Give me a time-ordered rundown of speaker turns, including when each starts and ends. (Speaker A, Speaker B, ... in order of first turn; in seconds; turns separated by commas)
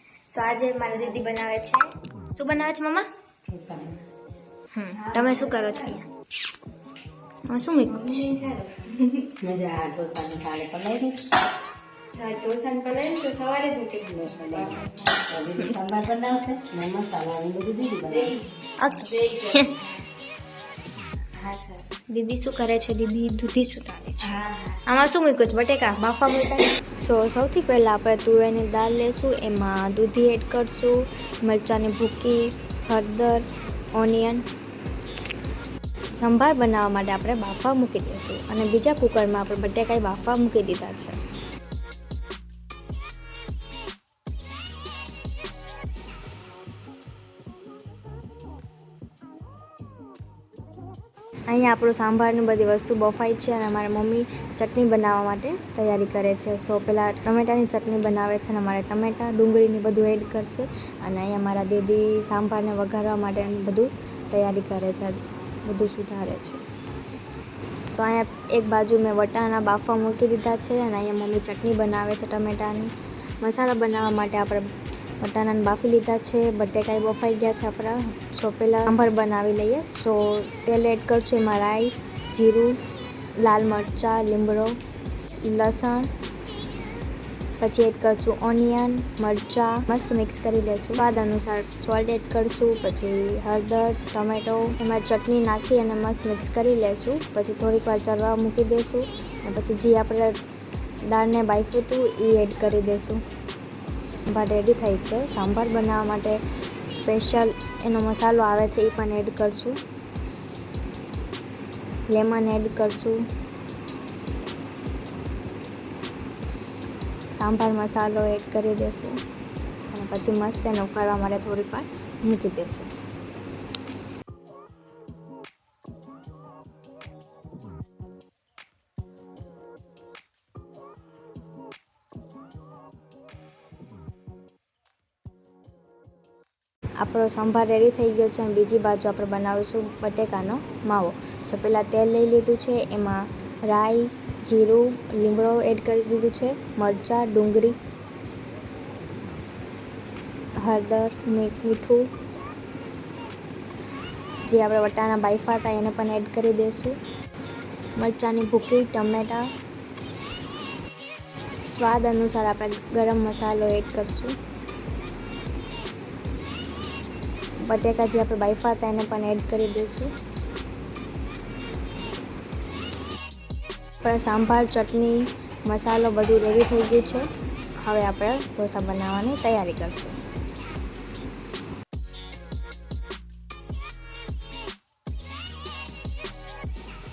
Speaker A: 0.3-3.1, Speaker B: 3.5-4.1, Speaker A: 4.7-6.0, Speaker C: 5.0-6.0, Speaker A: 7.5-8.3, Speaker C: 7.9-9.3, Speaker B: 9.4-11.2, Speaker C: 12.1-15.3, Speaker B: 14.1-18.3, Speaker C: 18.1-18.4, Speaker A: 18.8-19.8, Speaker C: 19.0-19.8, Speaker C: 21.4-21.8, Speaker A: 22.1-33.4, Speaker A: 34.0-34.4, Speaker A: 36.2-41.1, Speaker A: 51.5-66.6, Speaker A: 67.9-72.9, Speaker A: 73.4-74.7, Speaker A: 75.2-82.8, Speaker A: 83.4-84.7, Speaker A: 85.4-86.1, Speaker A: 87.6-100.3, Speaker A: 101.1-103.2, Speaker A: 104.3-109.8, Speaker A: 112.1-113.2, Speaker A: 117.3-119.2, Speaker A: 119.9-122.9, Speaker A: 137.0-147.8, Speaker A: 150.6-152.0, Speaker A: 154.5-156.9, Speaker A: 158.0-159.5, Speaker A: 161.7-164.3, Speaker A: 167.7-170.1, Speaker A: 174.0-180.1